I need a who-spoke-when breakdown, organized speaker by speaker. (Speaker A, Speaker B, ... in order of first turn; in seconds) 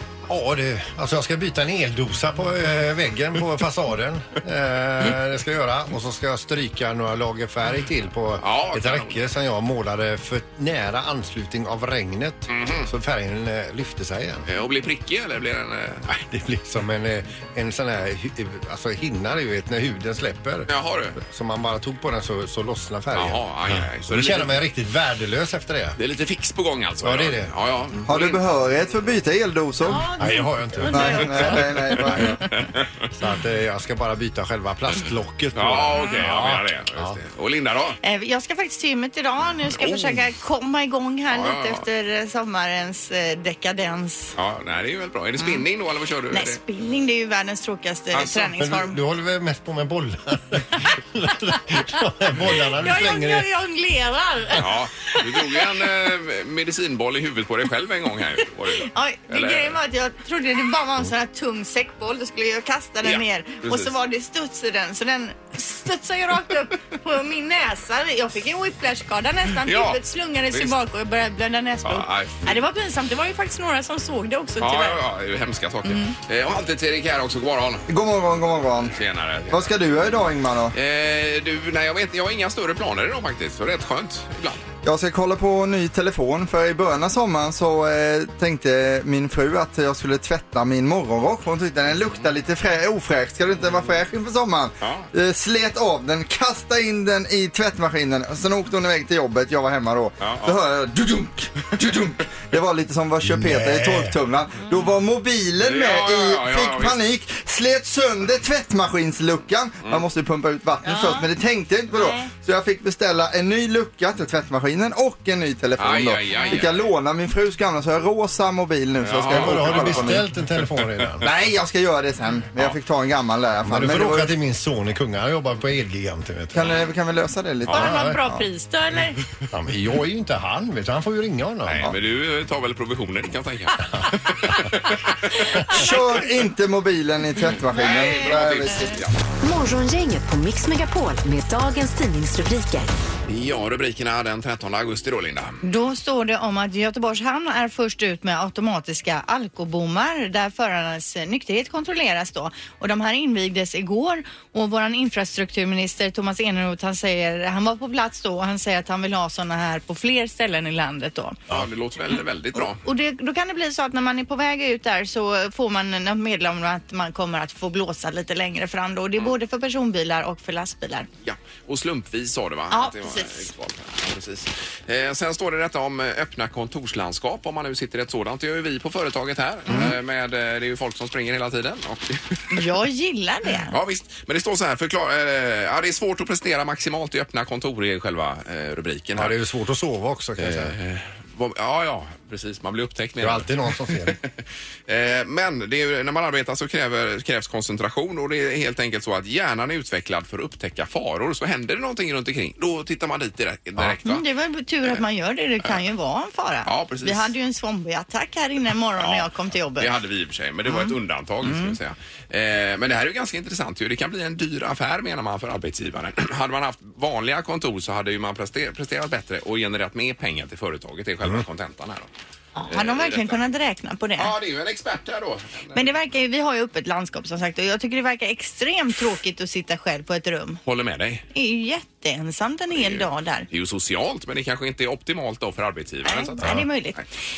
Speaker A: 0.3-14.5, 16.1-26.0, 27.0-27.5, 30.2-32.2, 33.1-37.2, 48.6-53.5, 103.2-104.2, 119.3-121.3, 123.6-126.8, 127.7-128.2, 129.5-131.8, 189.2-190.7, 193.2-194.2
Speaker B: 8.4-9.2, 12.5-12.9, 14.5-16.1, 20.7-21.2, 23.1-24.6, 26.0-28.4, 32.5-32.9, 35.5-38.0, 39.8-40.2, 41.3-41.8, 44.4-46.6, 48.1-48.5, 54.5-59.8, 63.0-63.9, 69.6-70.0, 71.8-72.6, 74.6-77.8, 78.8-79.9, 80.7-84.6, 94.8-95.1, 100.2-100.6, 105.6-107.0, 115.8-116.9, 119.0-120.2, 131.6-136.0, 137.7-139.2, 143.3-145.6, 161.5-162.8, 171.2-182.6, 183.7-189.3, 190.4-194.3, 194.9-204.2, 206.7-207.3, 209.0-222.1, 222.7-223.4, 224.2-225.9, 230.6-231.2, 232.8-237.0
Speaker C: 28.1-30.1, 30.9-32.4, 77.9-79.0, 79.5-80.7, 84.8-120.2, 121.2-124.3, 126.5-128.4, 135.7-139.0
Speaker D: 29.9-31.6, 38.0-44.3, 45.4-45.6, 46.3-49.0, 52.7-55.6, 58.8-75.0, 75.8-76.1, 110.8-111.3, 111.9-112.3, 127.7-129.2, 135.5-135.9, 137.8-139.0, 145.6-161.4, 162.6-171.1, 172.7-173.5, 182.5-183.7, 204.0-209.9, 210.7-210.9, 211.4-211.8, 222.6-224.3, 225.7-230.6, 231.3-233.5, 236.0-237.0
Speaker E: 139.4-142.9